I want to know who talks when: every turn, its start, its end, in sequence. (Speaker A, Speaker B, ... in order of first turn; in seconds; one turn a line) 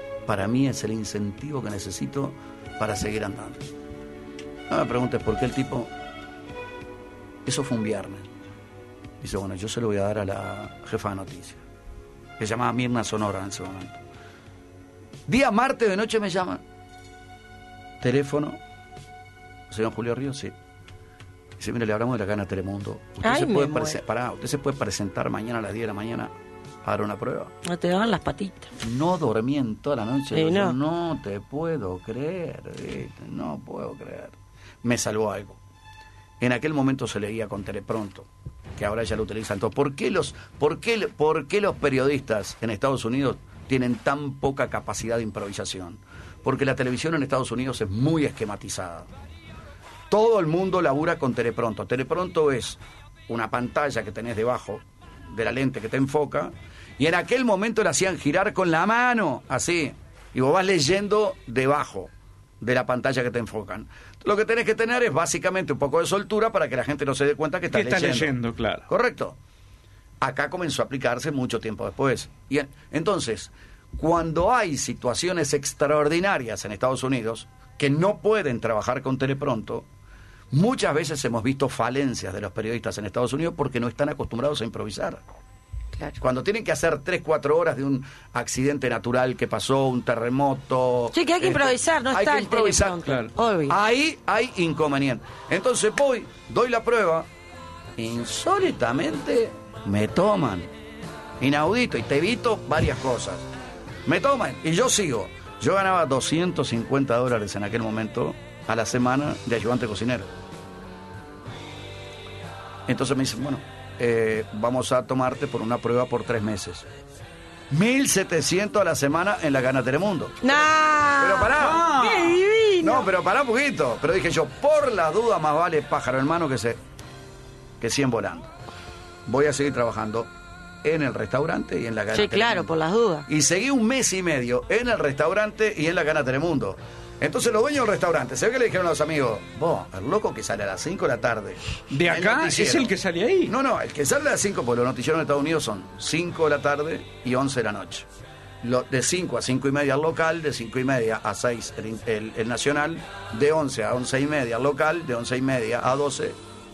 Speaker A: 0.3-3.6
Speaker A: 4.7-5.9
Speaker A: 7.5-8.3
Speaker A: 9.2-11.6
Speaker A: 12.4-14.0
Speaker A: 15.3-16.6
Speaker A: 18.0-18.6
Speaker A: 19.7-20.6
Speaker A: 21.6-27.5
Speaker B: 23.2-24.0
Speaker B: 27.6-28.7
Speaker A: 28.8-35.6
Speaker B: 30.3-30.8
Speaker A: 36.4-49.1
Speaker A: 50.1-68.3
Speaker C: 67.7-68.9
Speaker A: 68.9-69.4
Speaker A: 70.2-79.9
Speaker A: 80.5-85.2
Speaker A: 86.2-93.1
Speaker B: 91.1-93.8
Speaker A: 93.7-97.3
Speaker A: 98.0-100.7
Speaker A: 101.4-103.5
Speaker A: 104.0-110.3
Speaker A: 112.9-116.9
Speaker A: 117.7-121.9
Speaker B: 120.4-123.1
Speaker C: 121.6-122.4
Speaker A: 122.8-126.8
Speaker A: 127.8-128.5
Speaker A: 129.3-130.3
Speaker A: 130.8-132.7
Speaker B: 132.1-133.3
Speaker A: 133.3-142.9
Speaker C: 141.9-143.5
Speaker A: 143.5-148.1
Speaker A: 148.6-156.4